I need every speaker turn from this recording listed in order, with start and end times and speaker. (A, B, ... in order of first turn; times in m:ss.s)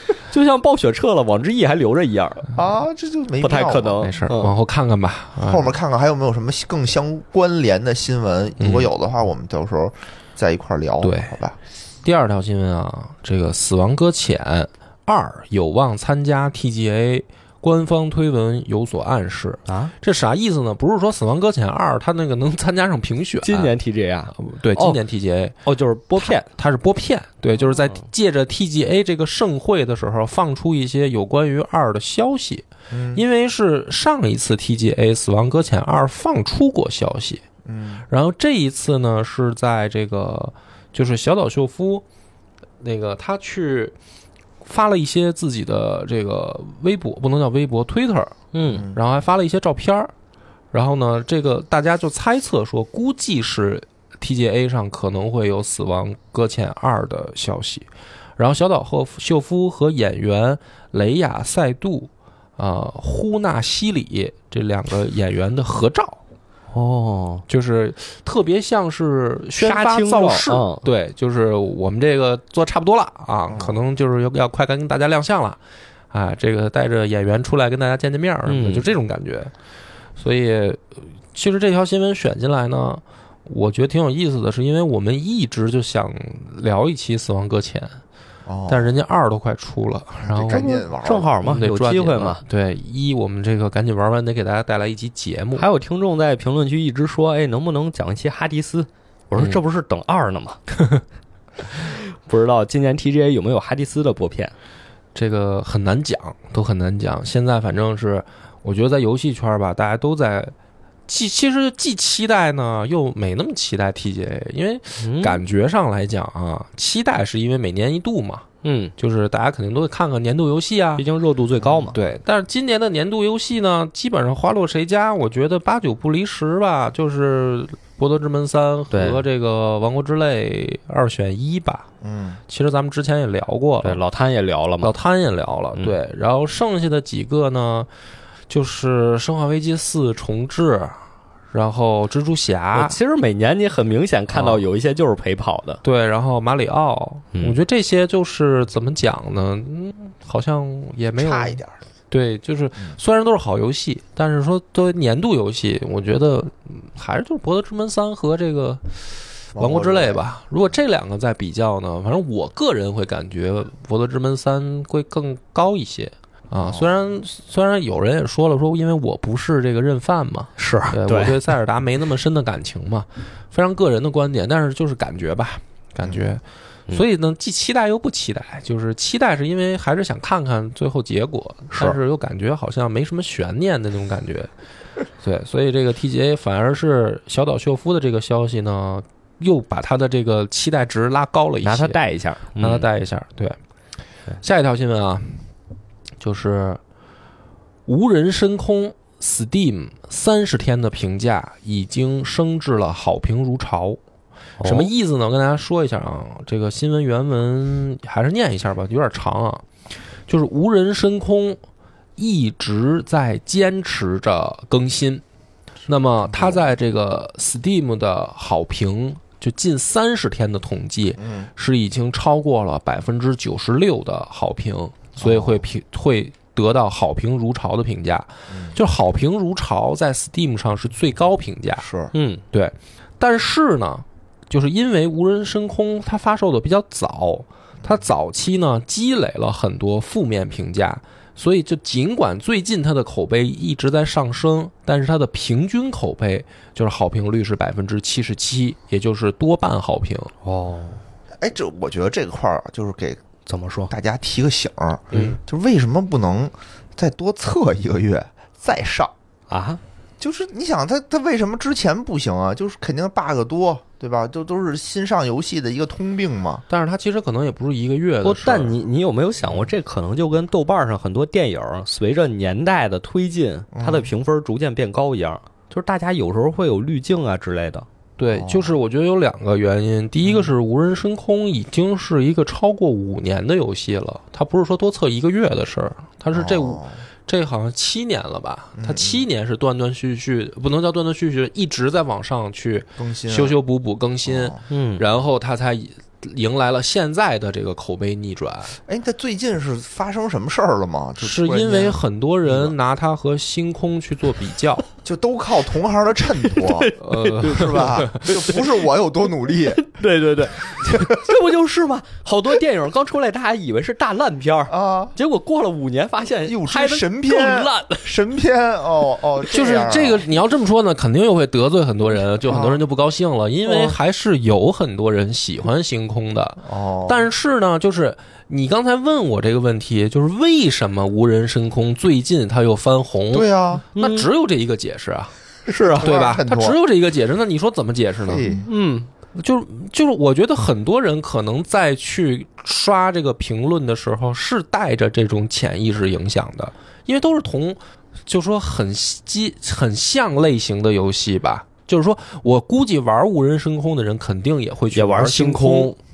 0:00.3-0:02.5 A
0:02.6-0:04.1 B
0:03.4-0:04.5 A
0:04.0-0:05.7 C
0:05.4-0:11.6 B
0:08.6-0:08.9 C
0:11.0-0:11.3 C
0:12.0-0:23.8 C
0:19.7-0:19.9 A
0:23.4-0:25.0 A
0:24.4-0:25.6 C
0:25.6-0:26.5 A
0:26.2-0:37.4 C
0:32.9-0:33.2 B
0:37.6-0:38.0 B
0:38.1-0:42.0 C
0:42.8-0:44.0 C
0:44.6-0:48.4 C
0:48.5-0:48.9 A
0:48.7-0:49.0 B
0:48.9-0:50.1 C
0:50.7-1:06.2 C
1:06.7-1:07.5 A
1:07.5-1:15.6 C
1:09.6-1:10.8 A
1:13.5-1:13.8 B
1:16.1-1:19.5 C
1:18.5-1:18.9 A
1:20.2-1:28.0 C
1:28.5-1:28.9 B
1:28.7-1:30.7 C
1:30.2-1:31.3 B
1:30.5-1:32.4 A
1:31.4-1:35.7 C
1:35.6-1:40.6 A
1:41.7-1:44.5 A
1:45.2-1:50.5 C
1:51.1-2:01.0 C
1:55.0-1:55.4 A
1:58.6-1:58.9 A
2:01.0-2:02.0 A
2:01.6-2:01.9 B
2:01.9-2:11.9 C
2:08.9-2:09.2 A
2:12.0-2:12.4 B
2:12.5-2:14.0 C
2:13.8-2:14.9 A
2:14.8-2:17.9 C
2:18.5-2:21.0 C
2:21.5-2:23.0 C
2:22.8-2:25.8 A
2:24.3-2:24.6 C
2:25.8-2:31.6 C
2:31.2-2:31.8 B
2:32.1-2:39.0 C
2:39.6-2:40.2 B
2:39.6-3:04.5 C
2:46.6-2:46.9 B
2:50.6-2:51.4 A
3:05.2-3:12.0 C
3:11.6-3:12.9 A
3:12.6-3:13.6 C
3:14.4-3:15.4 C
3:16.2-3:16.8 C
3:17.9-3:24.0 C
3:24.6-3:24.9 A
3:24.6-3:29.7 C
3:30.3-3:31.6 C
3:32.2-3:35.2 C
3:35.9-3:51.9 C
3:36.3-3:36.6 B
3:41.2-3:41.5 B
3:45.2-3:45.6 B
3:48.5-3:48.8 B
3:51.8-3:52.1 B
3:52.1-3:52.4 A
3:52.5-4:10.3 C
4:10.4-4:11.0 A
4:11.4-4:13.2 B
4:13.5-4:13.9 A
4:13.9-4:19.1 B
4:15.1-4:15.4 C
4:19.5-4:19.8 A
4:20.2-4:26.6 B
4:26.7-4:28.8 C
4:28.2-4:37.9 A
4:33.8-4:34.1 B
4:38.2-4:58.8 C
4:38.4-4:38.7 B
4:46.3-4:47.0 B
4:48.8-4:49.2 B
4:53.0-4:53.6 B
4:54.2-4:54.6 B
4:54.7-4:55.0 A
4:58.9-5:02.8 B
5:01.2-5:04.9 C
5:05.0-5:09.8 B
5:06.4-5:08.9 A
5:07.0-5:08.3 C
5:09.6-5:18.1 A
5:10.8-5:11.1 B
5:14.7-5:15.2 B
5:16.4-5:20.3 B
5:19.5-5:35.3 C
5:22.5-5:22.8 B
5:23.7-5:23.9 A
5:26.6-5:27.3 B
5:33.3-5:33.8 B
5:34.0-5:34.3 A
5:35.7-5:36.2 A
5:35.9-5:36.8 B
5:36.0-5:38.5 C
5:38.3-5:38.7 B
5:38.5-5:39.1 A
5:39.3-5:56.0 C
5:54.9-5:56.0 A